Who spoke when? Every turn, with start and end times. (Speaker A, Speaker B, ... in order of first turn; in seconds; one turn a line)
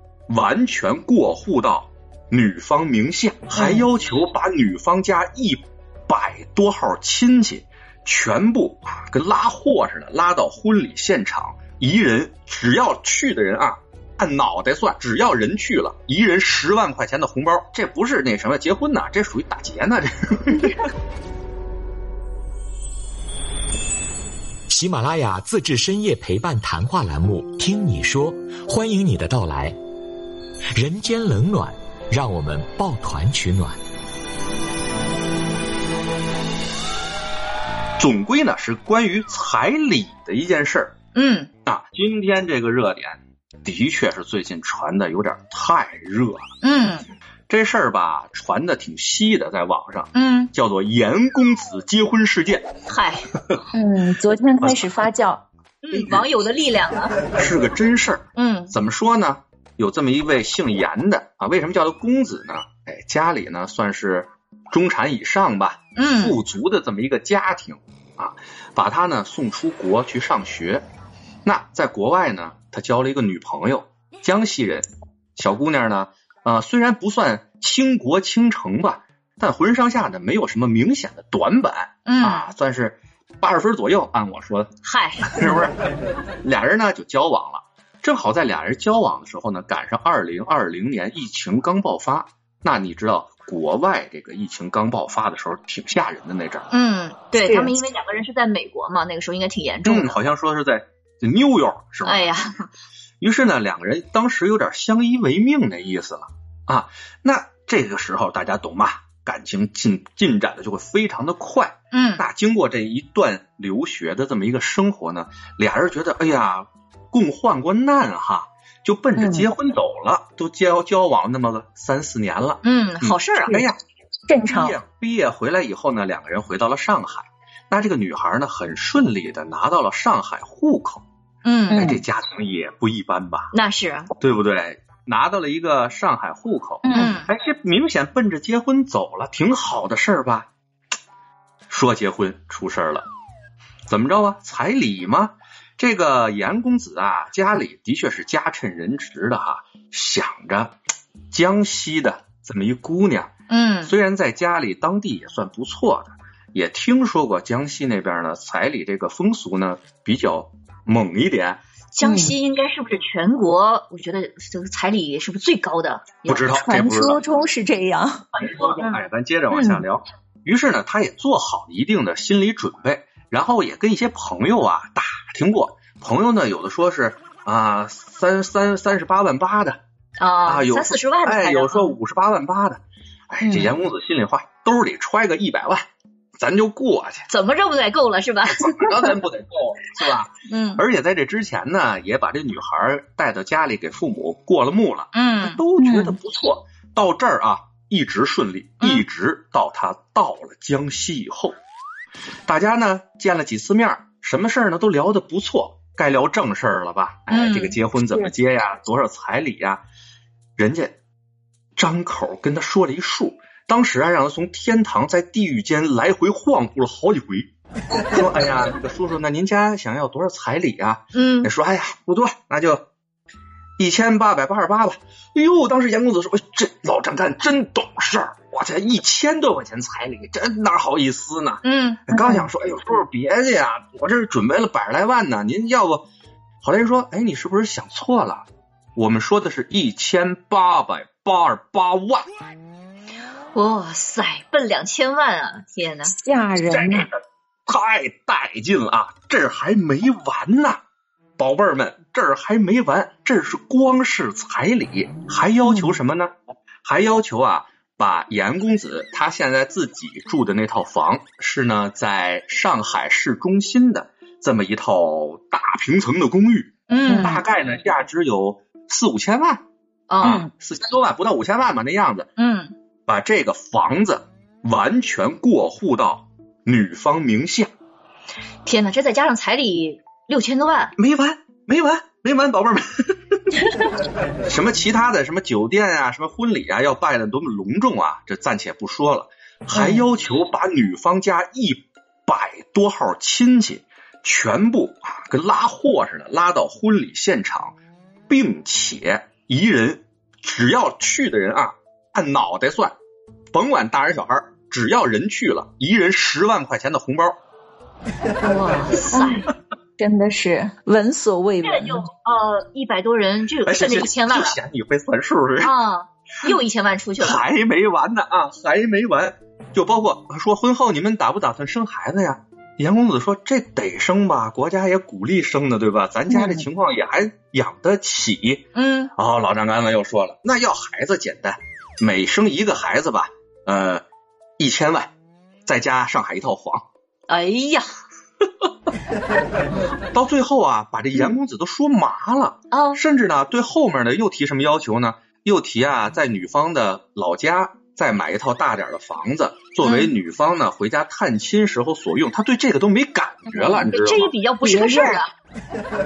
Speaker A: 0.3-20.9
Speaker B: 3.5-3.9
Speaker C: 24.7-29.8
Speaker C: 30.7-33.8
Speaker A: 38.0-40.9
Speaker D: 41.1-41.5
Speaker A: 41.6-46.4
Speaker D: 46.6-47.0
Speaker A: 47.5-52.6
Speaker D: 50.1-50.5
Speaker D: 52.9-53.2
Speaker B: 53.7-55.4
Speaker A: 54.6-54.9
Speaker D: 55.8-57.2
Speaker A: 55.9-56.2
Speaker A: 57.3-70.8
Speaker D: 58.3-58.7
Speaker D: 66.0-66.4
Speaker A: 71.5-84.7
Speaker D: 82.1-82.5
Speaker D: 84.8-85.3
Speaker A: 85.2-85.7
Speaker A: 86.4-96.7
Speaker D: 96.7-100.2
Speaker B: 97.4-97.7
Speaker A: 99.8-102.3
Speaker D: 102.0-102.7
Speaker A: 103.2-123.8
Speaker D: 111.9-112.2
Speaker B: 119.2-119.5
Speaker D: 122.6-123.5
Speaker B: 124.3-124.8
Speaker A: 124.5-131.0
Speaker D: 131.4-131.9
Speaker B: 131.7-132.0
Speaker A: 131.7-133.5
Speaker D: 133.5-134.1
Speaker A: 134.2-140.5
Speaker B: 136.8-137.2
Speaker D: 136.9-137.3
Speaker A: 141.7-143.0
Speaker A: 143.9-150.8
Speaker A: 151.3-153.3
Speaker D: 153.5-153.9
Speaker A: 153.8-161.6
Speaker D: 161.9-166.6
Speaker B: 162.0-162.3
Speaker A: 166.2-167.2
Speaker B: 166.5-168.2
Speaker A: 168.3-179.8
Speaker D: 168.6-169.0
Speaker B: 169.5-169.8
Speaker D: 180.2-181.9
Speaker A: 180.4-185.8
Speaker B: 183.4-183.7
Speaker A: 186.4-187.3
Speaker D: 187.3-189.1
Speaker A: 188.6-201.6
Speaker D: 190.5-190.8
Speaker D: 195.1-195.6
Speaker B: 195.8-196.2
Speaker A: 202.5-209.8
Speaker D: 207.3-207.8
Speaker A: 210.6-210.9
Speaker A: 211.8-217.5
Speaker A: 218.1-222.8
Speaker D: 221.1-221.5
Speaker A: 223.8-236.0
Speaker D: 231.6-232.0
Speaker B: 232.1-232.5
Speaker A: 236.6-242.3
Speaker D: 243.5-246.1
Speaker B: 246.1-247.1
Speaker A: 246.7-250.8
Speaker A: 251.4-256.3
Speaker B: 255.6-256.0
Speaker A: 256.8-269.6
Speaker D: 266.9-267.4
Speaker B: 267.1-267.4
Speaker D: 270.1-270.4
Speaker A: 270.2-272.3
Speaker B: 270.2-270.5
Speaker D: 272.4-272.7
Speaker A: 273.1-277.7
Speaker D: 278.6-280.9
Speaker A: 281.0-282.8
Speaker A: 284.4-297.8
Speaker A: 298.3-302.9
Speaker A: 303.5-307.4
Speaker D: 308.4-309.5
Speaker B: 309.1-309.4
Speaker B: 310.0-312.0
Speaker D: 311.6-314.6
Speaker A: 313.6-315.7
Speaker D: 315.6-317.4
Speaker A: 317.2-334.0
Speaker B: 326.3-326.6
Speaker D: 328.7-329.1
Speaker A: 334.6-335.1
Speaker A: 335.6-336.8
Speaker D: 337.3-337.9
Speaker A: 340.1-354.3
Speaker D: 342.7-343.0
Speaker D: 349.8-350.1
Speaker D: 353.6-355.3
Speaker B: 354.6-355.2